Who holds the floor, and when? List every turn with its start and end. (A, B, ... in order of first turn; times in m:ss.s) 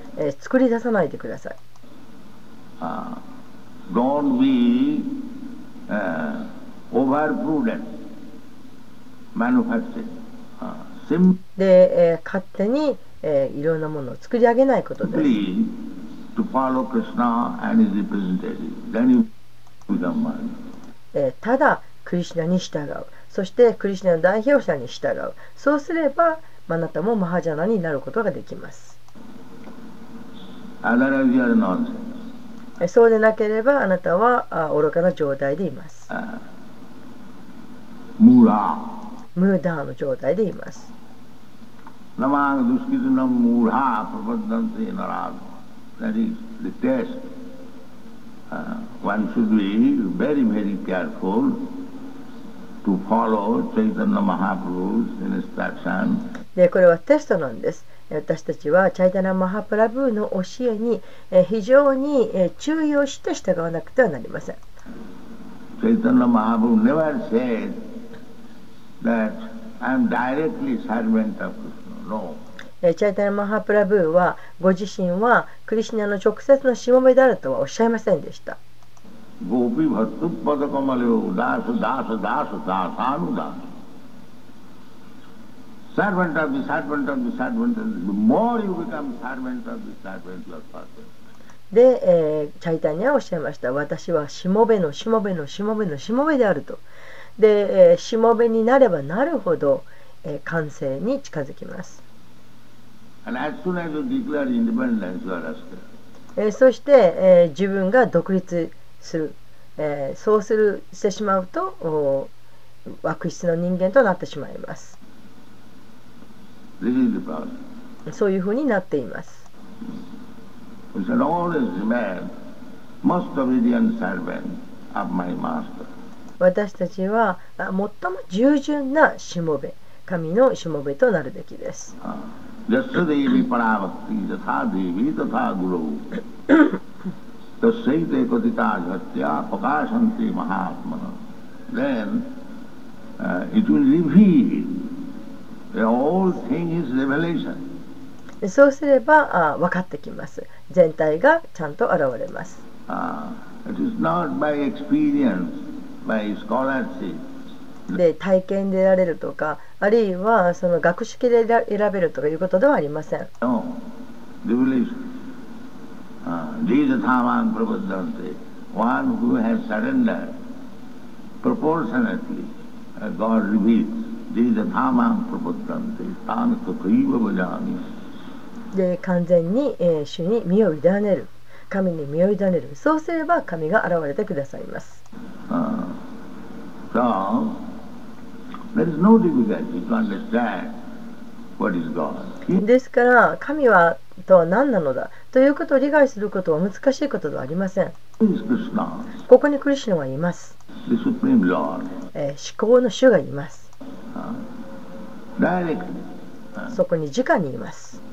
0:00.2-0:01.6 A
0:02.8-0:03.2 B
0:03.9-0:05.2 B
0:05.9-0:07.9 B
0:09.3-0:11.4 B
0:11.6-0:15.4 A
0:15.0-0:15.8 B
0:16.3-0:19.3 B
0:19.9-0:20.6 B
0:21.1-0:29.0 A
0:30.8-0:32.2 B
0:32.8-0:36.1 A
0:36.1-0:36.4 B
0:38.2-0:39.0 B
0:39.3-0:40.9 A
0:42.2-0:47.2 B
0:48.5-0:51.8 B
0:52.8-0:56.3 B
0:56.6-1:04.6 A
1:05.8-1:07.8 B
1:09.0-1:12.4 B
1:12.8-1:18.6 A
1:19.4-1:23.6 B
1:25.9-1:31.1 B
1:31.7-1:36.8 A
1:37.4-1:42.0 A
1:43.2-1:45.8 B
1:46.4-1:52.3 A
1:52.9-1:55.0 A
1:56.8-1:57.6 B
1:58.1-1:59.4 A
2:00.9-2:02.3 B
2:03.0-2:05.9 B
2:06.4-2:11.9 A
2:12.0-2:16.1 B
2:17.6-2:21.2 B
2:21.7-2:22.3 B
2:23.2-2:25.0 B
2:25.7-2:27.6 B
2:28.4-2:32.6 A
2:32.9-2:37.2 B
2:37.9-2:43.3 A
2:43.4-2:43.8 B
2:44.4-2:45.1 B
2:46.2-2:50.4 B
2:51.4-2:57.8 B
2:58.7-3:05.0 A
3:05.5-3:06.0 B
3:06.9-3:07.6 B
3:08.7-3:10.8 B
3:11.6-3:12.6 B
3:12.6-3:17.9 A
3:18.2-3:19.1 B
3:19.3-3:20.6 A
3:20.8-3:21.9 B
3:22.1-3:23.7 A
3:24.1-3:24.4 B
3:25.4-3:26.0 B
3:26.7-3:28.0 A